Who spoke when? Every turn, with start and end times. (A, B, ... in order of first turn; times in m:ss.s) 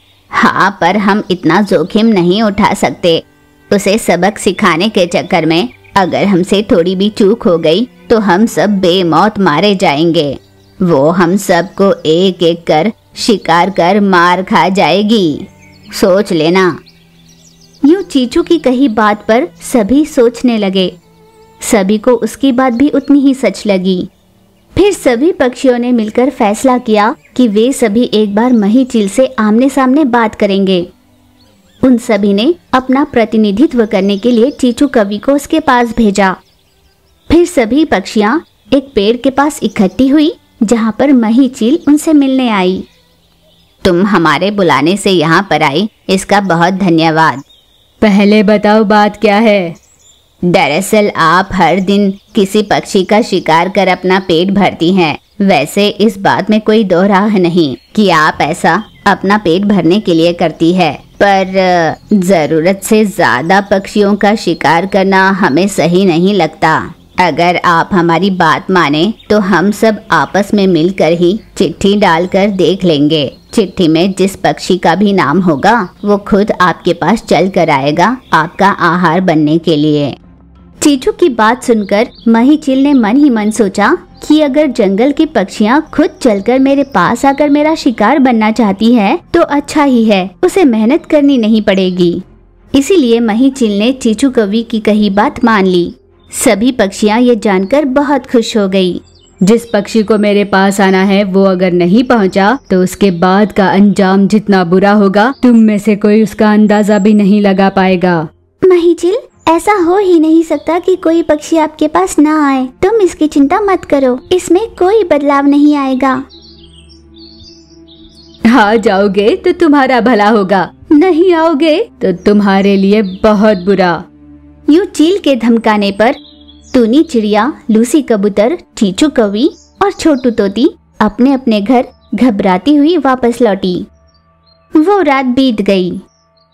0:00.3-0:16.7 A
0:17.8-0:20.9 A
0:21.6-0:24.1 A
0:24.7-0:30.8 A
0:31.8-0:36.4 A
0:37.3-0:42.8 A
0:43.8-0:47.4 A
0:48.0-0:49.8 B
0:50.4-1:20.2 A
1:20.8-1:39.0 A
1:39.4-1:48.2 B
1:48.6-1:56.2 A
1:58.5-2:00.5 B
1:58.7-1:59.7 A
2:00.4-2:03.6 A
2:02.1-2:03.9 B
2:04.7-2:06.2 A
2:06.7-2:13.8 A
2:14.8-2:16.0 A